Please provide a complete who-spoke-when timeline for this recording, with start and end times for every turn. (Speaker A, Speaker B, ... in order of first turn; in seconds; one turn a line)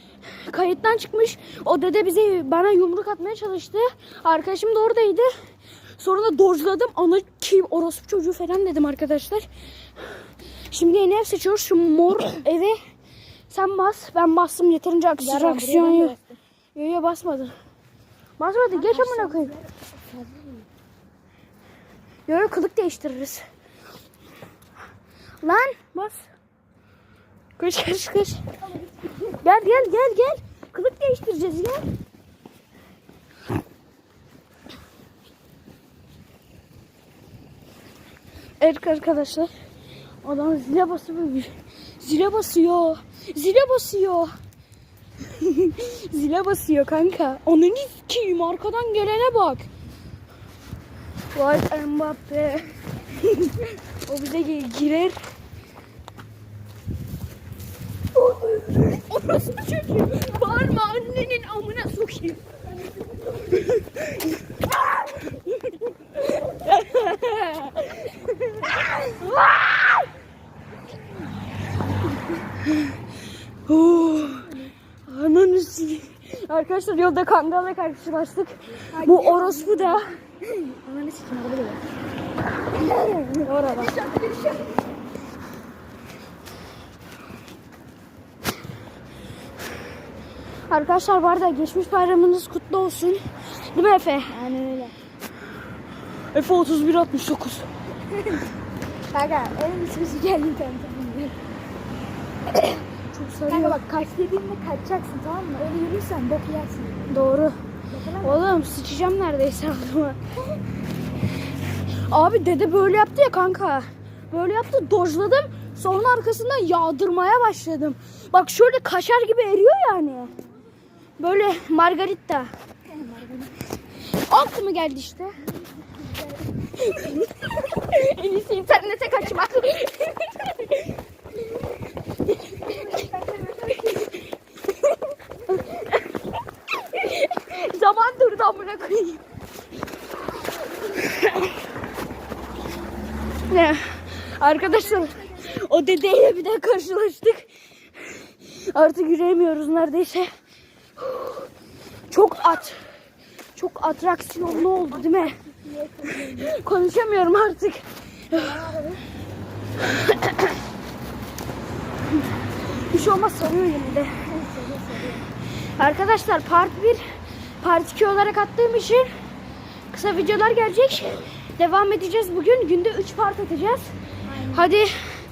Speaker A: 0.4-5.3
Speaker A: 6.0-9.5
Speaker A: 10.7-12.8
Speaker A: 13.5-16.1
Speaker B: 15.2-16.2
Speaker A: 16.7-17.5
Speaker A: 18.4-19.5
Speaker B: 18.7-20.6
Speaker A: 22.3-23.4
Speaker A: 25.4-26.2
Speaker A: 27.6-28.4
Speaker B: 28.8-29.4
Speaker A: 29.4-31.9
Speaker A: 38.6-39.5
Speaker A: 40.2-44.3
Speaker A: 45.3-49.7
Speaker A: 51.3-55.2
Speaker A: 58.3-62.4
Speaker A: 63.6-64.1
Speaker A: 66.4-69.9
Speaker A: 73.7-74.5
Speaker A: 75.1-80.1
Speaker B: 78.9-81.8
Speaker B: 82.9-84.8
Speaker A: 83.3-84.0
Speaker A: 90.7-94.3
Speaker B: 94.3-94.9
Speaker A: 96.3-97.7
Speaker B: 98.1-98.5
Speaker B: 99.1-101.3
Speaker A: 102.6-103.8
Speaker B: 103.5-107.1
Speaker A: 107.1-107.5
Speaker B: 107.9-108.6
Speaker A: 108.2-110.2
Speaker A: 112.1-120.3
Speaker A: 121.2-122.5
Speaker B: 122.9-123.5
Speaker A: 124.3-125.4
Speaker A: 126.8-130.7
Speaker B: 132.6-134.2
Speaker A: 135.5-135.9
Speaker A: 136.9-139.2
Speaker A: 143.5-147.5
Speaker B: 144.7-145.4
Speaker A: 148.1-150.3
Speaker A: 151.0-151.4
Speaker A: 152.1-152.8
Speaker A: 153.6-155.3
Speaker B: 154.6-156.6
Speaker A: 156.4-158.5
Speaker B: 158.3-159.0
Speaker A: 159.9-160.5
Speaker A: 162.9-164.1
Speaker B: 164.3-165.3
Speaker A: 165.8-167.0
Speaker A: 167.6-169.1
Speaker A: 169.9-173.9
Speaker B: 174.3-174.8
Speaker A: 174.5-174.9